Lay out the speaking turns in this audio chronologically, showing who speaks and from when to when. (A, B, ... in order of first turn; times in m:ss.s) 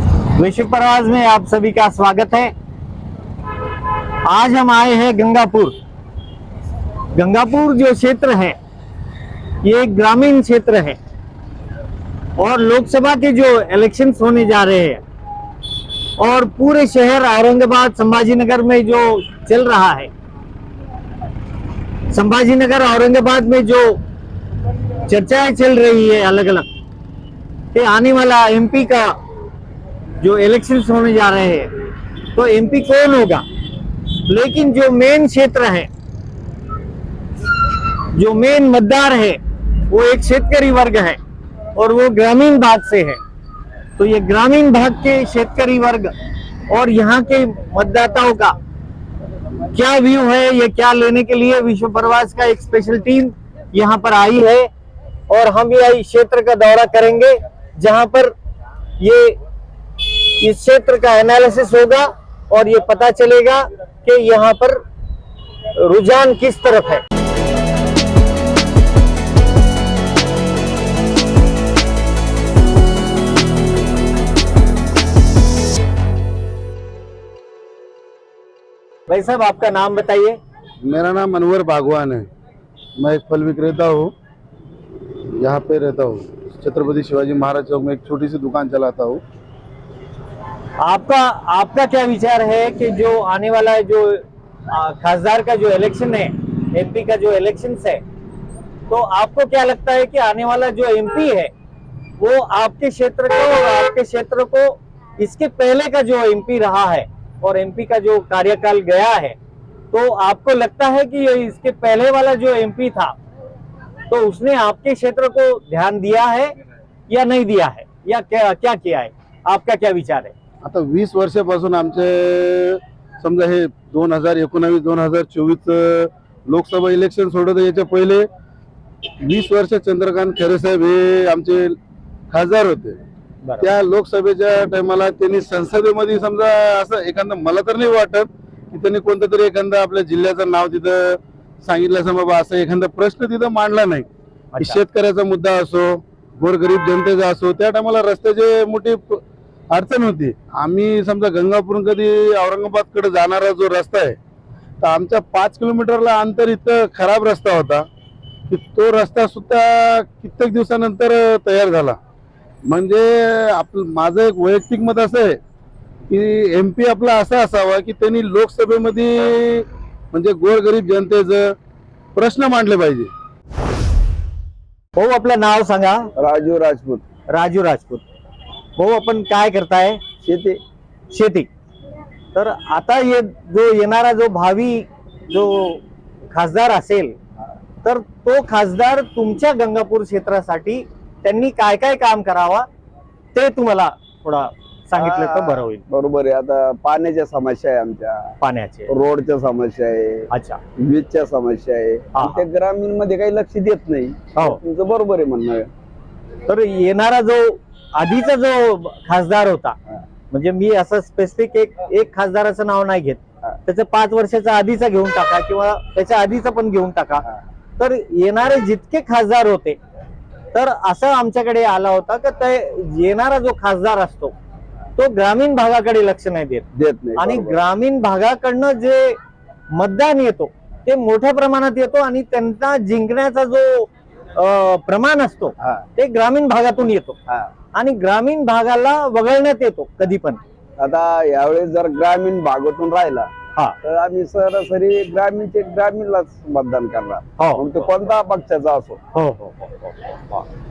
0:00.4-0:02.5 A
0:04.2-0:05.7 A
0:07.2-0:08.6 A
0:09.6-0:11.0 A
0:12.4-0:15.0 A
0:16.2-0:20.1 A
0:22.1-0:24.0 A
0:25.1-0:26.6 A
0:27.7-0:29.1 A
0:30.2-0:31.7 A
0:32.4-0:33.4 A
0:34.3-0:35.9 A
0:38.2-0:39.4 A
0:39.9-0:41.2 A
0:41.8-0:43.2 A
0:44.0-0:46.1 A
0:46.7-0:48.6 A
0:49.7-0:54.7 A
0:55.3-0:58.3 A
0:59.0-0:59.4 A
1:00.0-1:04.8 A
1:05.8-1:07.0 A
1:19.1-1:20.4 A
1:20.8-1:22.3 B
1:23.0-1:24.1 B
1:25.4-1:29.2 B
1:30.8-1:38.0 A
1:38.9-1:41.5 A
1:42.2-1:49.4 A
1:49.9-1:53.1 A
1:54.1-1:56.5 A
1:57.1-2:00.3 A
2:00.6-2:08.3 B
2:09.2-2:11.8 B
2:12.3-2:13.0 B
2:13.4-2:13.7 A
2:13.6-2:34.2 B
2:34.8-2:37.9 B
2:38.5-2:42.0 B
2:42.7-2:45.4 B
2:46.1-2:51.6 B
2:52.2-2:53.1 B
2:55.0-2:56.1 A
2:56.2-2:57.1 C
2:57.3-2:58.0 A
2:58.8-3:00.0 A
3:00.2-3:00.6 C
3:01.1-3:01.5 A
3:02.4-3:07.2 A
3:07.8-3:12.7 A
3:13.3-3:15.8 A
3:15.0-3:18.3 C
3:18.4-3:18.9 A
3:18.9-3:25.7 C
3:20.3-3:20.6 A
3:22.2-3:22.4 A
3:26.5-3:29.8 A
3:30.3-3:37.3 A
3:37.8-3:39.8 A
3:40.5-3:44.3 A
3:45.0-3:49.2 A
3:46.7-3:47.6 C
3:49.7-3:57.2 A
3:57.7-4:00.4 A
4:00.8-4:03.3 C
4:03.8-4:09.0 C
4:07.4-4:07.6 A
4:09.2-4:09.9 A